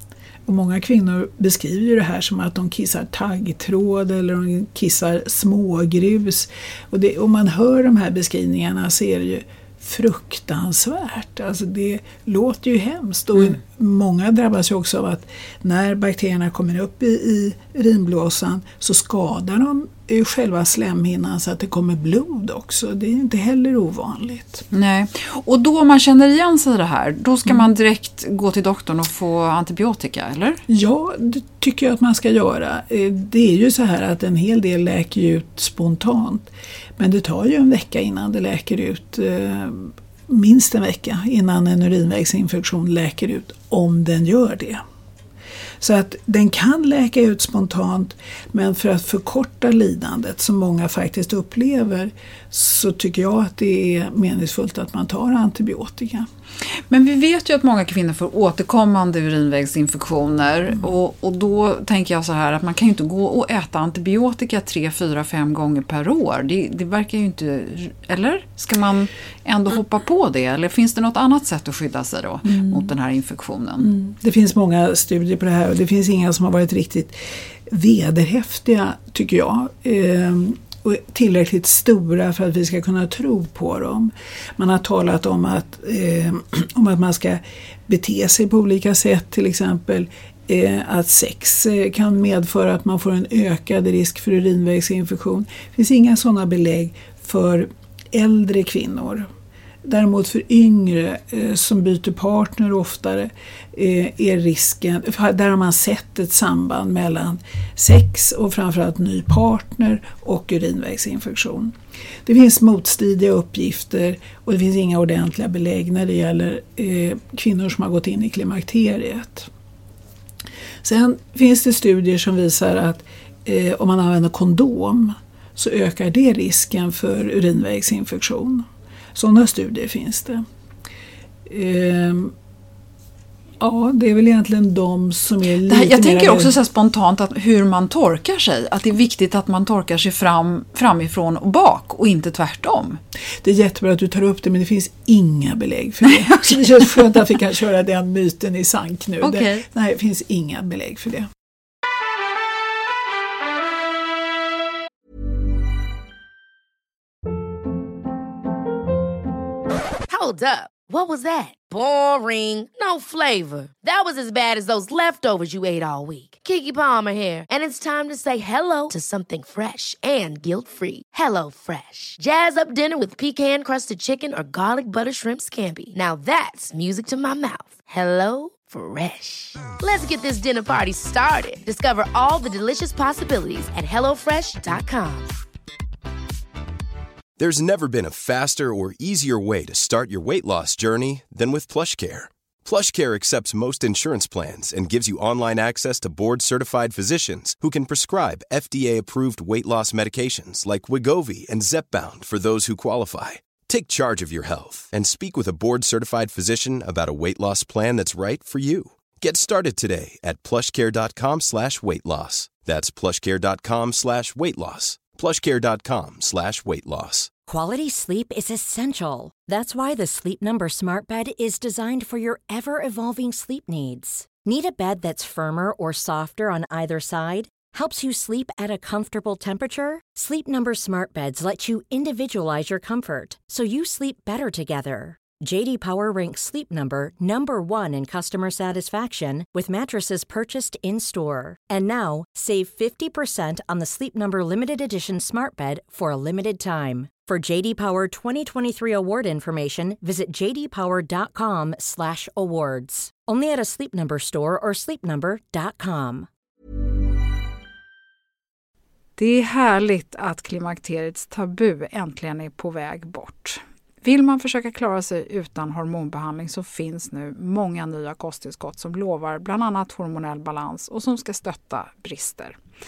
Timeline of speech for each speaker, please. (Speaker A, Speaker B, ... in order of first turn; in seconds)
Speaker A: 0.5-24.6, 30.7-44.8, 45.8-56.3, 72.5-72.9, 73.8-99.3, 99.8-119.5, 120.8-130.4, 131.4-132.3, 133.6-136.5, 143.4-151.3
Speaker B: 24.7-30.6, 56.9-73.9, 135.7-143.0, 149.2-149.6, 259.2-272.6
Speaker C: 160.1-185.3
Speaker D: 187.4-217.3
Speaker E: 217.5-256.3